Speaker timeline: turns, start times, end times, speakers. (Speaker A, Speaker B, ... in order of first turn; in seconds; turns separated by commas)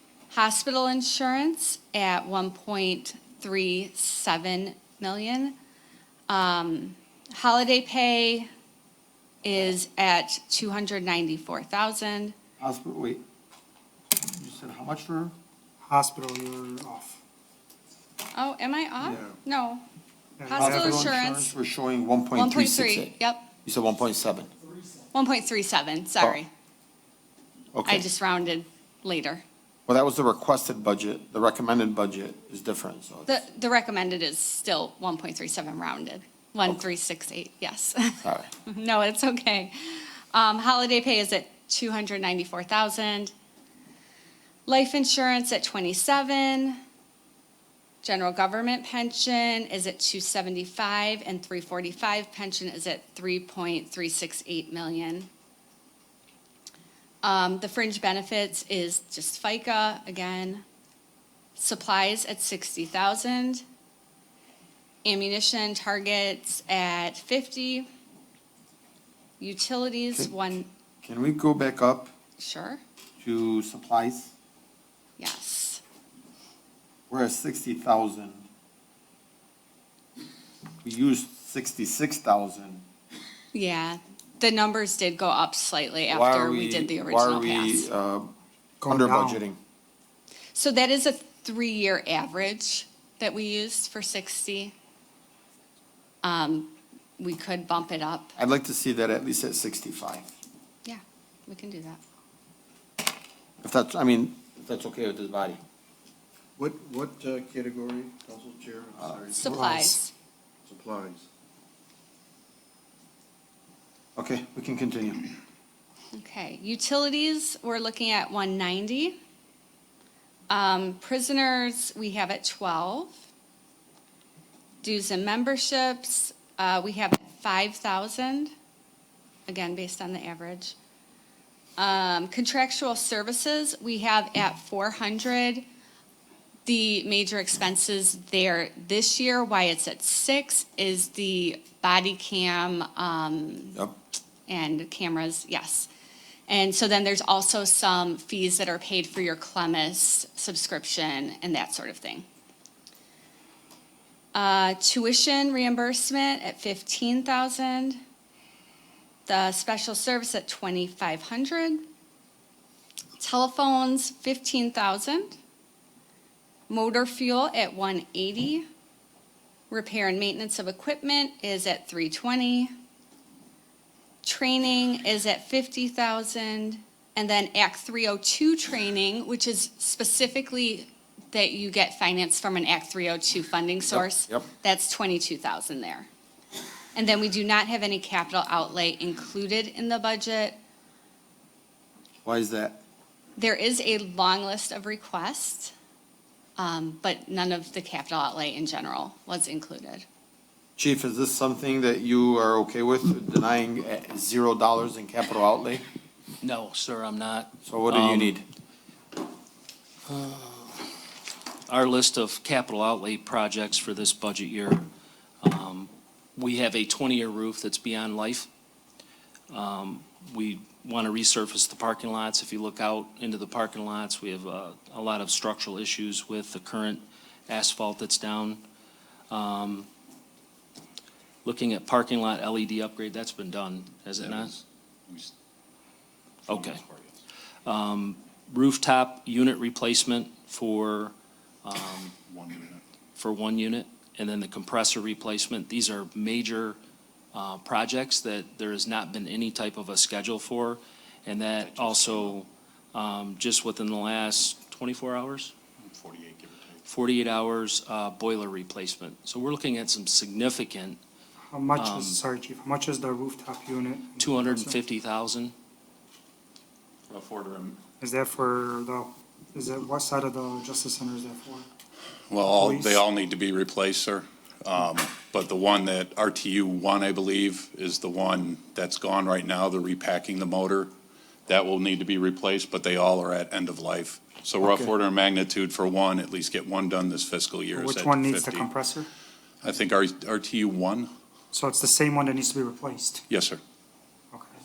Speaker A: 0.3-5.5, Speaker A: 6.3-8.5, Speaker A: 9.4-12.3, Speaker B: 12.6-13.2, Speaker B: 14.2-15.3, Speaker C: 15.8-17.2, Speaker A: 18.3-19.8, Speaker C: 20.4-21.0, Speaker A: 20.4-21.5, Speaker B: 20.5-24.5, Speaker A: 22.3-23.5, Speaker A: 25.1-26.5, Speaker B: 27.7-28.1, Speaker A: 27.9-29.4, Speaker B: 29.9-33.4, Speaker A: 33.3-43.3, Speaker B: 38.2-38.5, Speaker A: 44.7-46.8, Speaker A: 48.0-55.3, Speaker A: 57.2-60.6, Speaker A: 61.5-63.6, Speaker A: 65.0-67.9, Speaker A: 69.4-70.7, Speaker B: 71.0-72.1, Speaker A: 72.4-72.8, Speaker B: 73.2-74.3, Speaker A: 75.2-75.8, Speaker B: 77.1-78.5, Speaker B: 80.8-82.8, Speaker A: 83.5-87.9, Speaker B: 86.1-88.3, Speaker C: 88.8-89.4, Speaker B: 88.9-89.6, Speaker A: 90.5-94.7, Speaker A: 96.2-98.3, Speaker B: 98.3-100.3, Speaker A: 100.8-102.0, Speaker B: 103.6-105.6, Speaker D: 106.6-109.5, Speaker B: 109.0-109.4, Speaker A: 109.3-110.1, Speaker C: 109.5-109.9, Speaker D: 110.7-111.2, Speaker B: 114.2-115.3, Speaker A: 116.1-119.2, Speaker A: 120.5-123.2, Speaker A: 124.8-128.5, Speaker A: 129.5-130.7, Speaker A: 131.8-135.6, Speaker A: 136.7-143.8, Speaker A: 144.5-145.9, Speaker A: 146.5-152.2, Speaker A: 154.3-158.0, Speaker A: 159.3-161.8, Speaker A: 163.2-165.4, Speaker A: 166.7-168.6, Speaker A: 169.7-172.7, Speaker A: 174.2-186.1, Speaker B: 183.9-184.5, Speaker A: 186.9-190.6, Speaker B: 192.2-192.8, Speaker A: 193.4-195.7, Speaker A: 196.6-200.0, Speaker B: 200.8-205.8, Speaker E: 206.4-208.4, Speaker B: 207.7-208.4, Speaker E: 210.1-210.9, Speaker E: 211.7-214.9, Speaker E: 215.4-218.5, Speaker E: 219.5-228.6, Speaker E: 229.3-229.9, Speaker E: 231.4-234.5, Speaker F: 234.2-235.3, Speaker E: 236.5-236.8, Speaker F: 236.5-237.2, Speaker E: 237.6-241.1, Speaker E: 241.6-242.1, Speaker F: 242.3-242.8, Speaker E: 243.2-246.8, Speaker E: 247.3-255.5, Speaker F: 251.6-252.4, Speaker F: 255.8-256.8, Speaker E: 256.9-261.0, Speaker C: 261.5-264.8, Speaker E: 261.7-262.2, Speaker E: 264.2-265.5, Speaker F: 267.1-267.8, Speaker C: 268.0-271.6, Speaker F: 272.3-280.9, Speaker C: 272.6-272.9, Speaker F: 281.5-288.7, Speaker C: 284.6-284.9, Speaker C: 287.8-289.1, Speaker F: 289.6-291.1, Speaker C: 291.5-293.2, Speaker F: 293.3-293.6